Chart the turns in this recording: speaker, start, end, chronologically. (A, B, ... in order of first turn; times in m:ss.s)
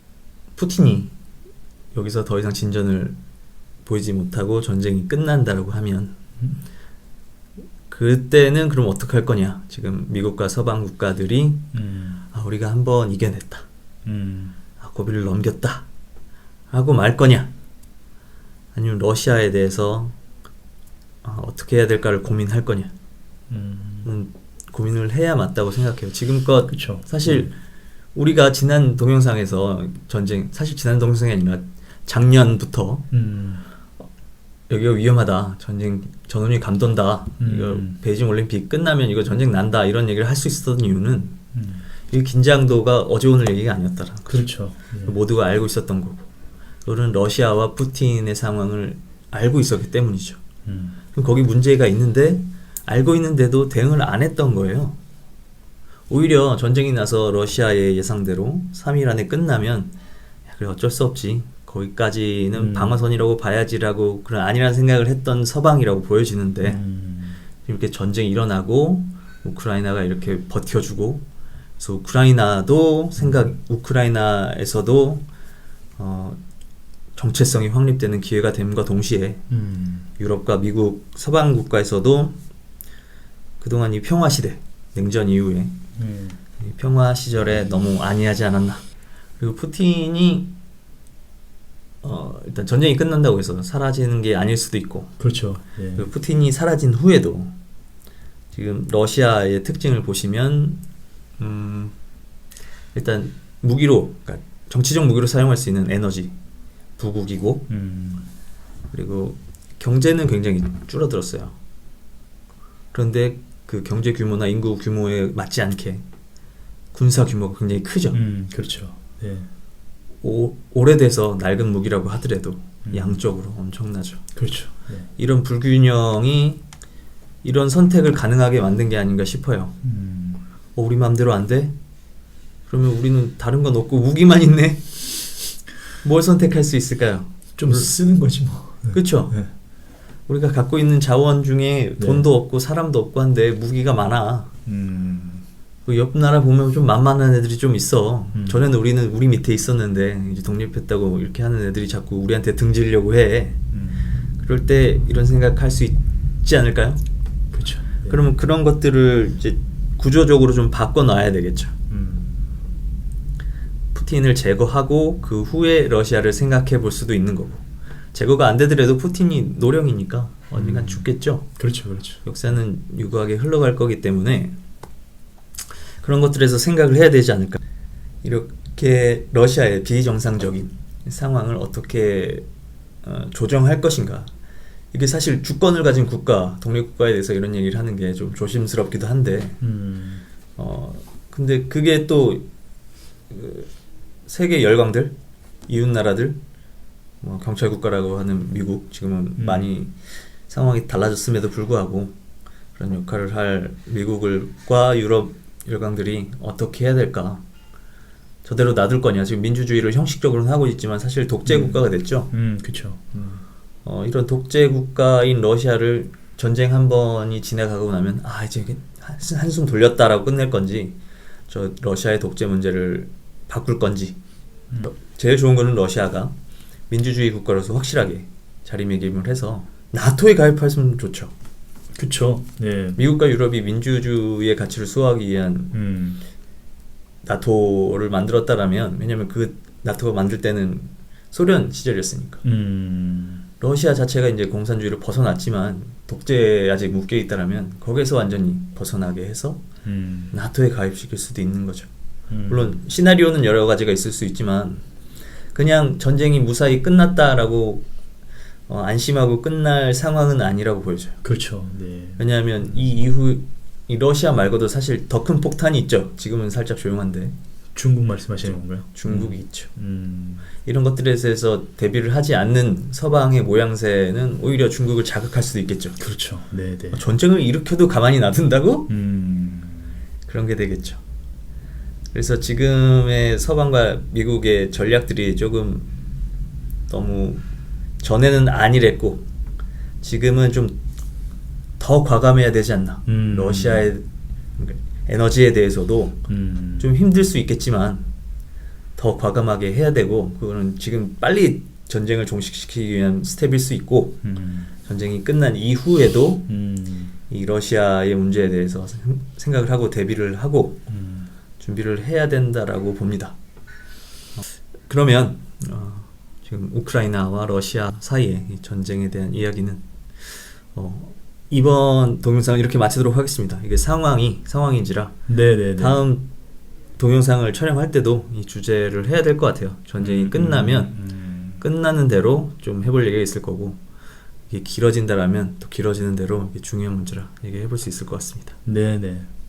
0:00.6-0:01.1 A
0:01.9-0:03.2 A
0:03.8-0:06.2 A
0:07.9-0:11.7 A
0:11.7-0:12.2 B
0:12.3-0:13.6 A
0:14.0-0:14.6 B
0:14.8-0:15.8 A
0:16.7-0:17.5 A
0:18.7-0:20.1 A
0:21.2-0:22.9 A
0:23.5-0:24.1 B
0:24.0-0:27.5 A
0:26.7-0:27.5 B
0:28.1-0:33.1 A
0:33.1-0:33.6 B
0:34.7-0:41.4 A
0:37.4-0:38.0 B
0:41.5-0:41.8 B
0:42.1-0:44.5 A
0:44.3-0:45.2 B
0:45.0-0:46.3 A
0:46.8-0:50.4 A
0:50.6-0:51.0 B
0:51.1-0:55.0 A
0:56.1-0:59.9 A
1:00.5-1:06.8 A
1:02.5-1:03.0 B
1:06.6-1:07.4 B
1:07.6-1:11.2 A
1:11.8-1:15.2 A
1:16.0-1:16.4 A
1:17.2-1:19.4 A
1:19.5-1:20.1 B
1:20.2-1:22.4 A
1:23.6-1:25.8 A
1:26.0-1:26.4 B
1:26.6-1:28.8 A
1:29.4-1:30.5 A
1:32.0-1:35.2 A
1:35.2-1:36.1 B
1:36.0-1:37.6 A
1:38.5-1:40.8 A
1:41.4-1:41.9 A
1:42.9-1:46.3 A
1:47.0-1:47.7 A
1:47.7-1:48.3 B
1:48.9-1:51.6 A
1:52.9-1:56.0 A
1:56.9-1:58.2 A
1:58.1-1:59.5 B
2:00.2-2:04.2 A
2:02.8-2:03.2 B
2:04.4-2:05.1 B
2:05.2-2:06.6 A
2:07.4-2:09.8 A
2:09.8-2:10.4 B
2:10.8-2:11.7 A
2:12.7-2:15.4 A
2:15.9-2:17.9 A
2:17.6-2:19.5 B
2:18.9-2:19.4 A
2:20.3-2:24.5 A
2:22.0-2:22.2 B
2:24.6-2:25.4 B
2:25.8-2:33.6 A
2:28.3-2:28.6 B
2:33.7-2:34.1 B
2:34.4-2:37.0 A
2:37.5-2:38.2 B
2:38.0-2:41.7 A
2:41.9-2:42.3 B
2:43.9-2:51.5 A
2:50.6-2:51.0 B
2:51.6-2:52.2 B
2:52.2-2:54.6 A
2:56.0-2:57.6 A
2:58.2-3:02.4 A
3:03.0-3:04.3 A
3:04.9-3:09.6 A
3:09.6-3:10.2 B
3:10.6-3:12.4 A
3:13.3-3:13.7 A
3:14.2-3:15.2 A
3:15.7-3:16.4 A
3:17.2-3:20.0 A
3:19.4-3:19.7 B
3:20.5-3:22.1 A
3:22.8-3:27.4 A
3:28.4-3:32.3 A
3:31.4-3:33.4 B
3:33.8-3:44.2 A
3:44.9-3:46.3 A
3:46.9-3:51.3 A
3:51.9-3:53.0 B
3:53.0-3:55.7 A
3:55.7-3:56.2 B
3:57.2-4:02.4 A
4:02.4-4:03.4 B
4:03.6-4:09.6 A
4:09.8-4:10.3 B
4:10.3-4:11.9 A
4:12.3-4:12.8 B
4:12.5-4:14.8 A
4:15.5-4:17.8 A
4:18.7-4:21.2 A
4:21.2-4:22.2 B
4:22.2-4:27.3 A
4:27.7-4:30.5 B
4:28.5-4:29.7 A
4:30.6-4:36.0 A
4:36.0-4:37.0 B
4:36.9-4:38.9 A
4:38.9-4:40.0 B
4:40.2-4:41.0 A
4:42.1-4:45.9 A
4:46.9-4:47.4 A
4:48.0-4:49.2 A
4:50.0-4:50.8 A
4:51.8-4:54.1 A
4:53.0-4:53.9 B
4:54.6-4:56.2 A
4:56.3-4:56.9 B
4:56.8-4:58.1 A
4:59.0-5:04.2 A
5:04.2-5:04.7 B
5:04.8-5:06.5 A
5:06.5-5:07.1 B
5:07.3-5:10.8 A
5:10.9-5:11.3 B
5:11.6-5:13.4 A
5:14.9-5:25.2 A
5:25.3-5:26.0 B
5:25.8-5:26.3 A
5:27.0-5:30.9 A
5:30.0-5:31.6 B
5:31.6-5:33.8 A
5:34.5-5:38.6 A
5:38.6-5:39.3 B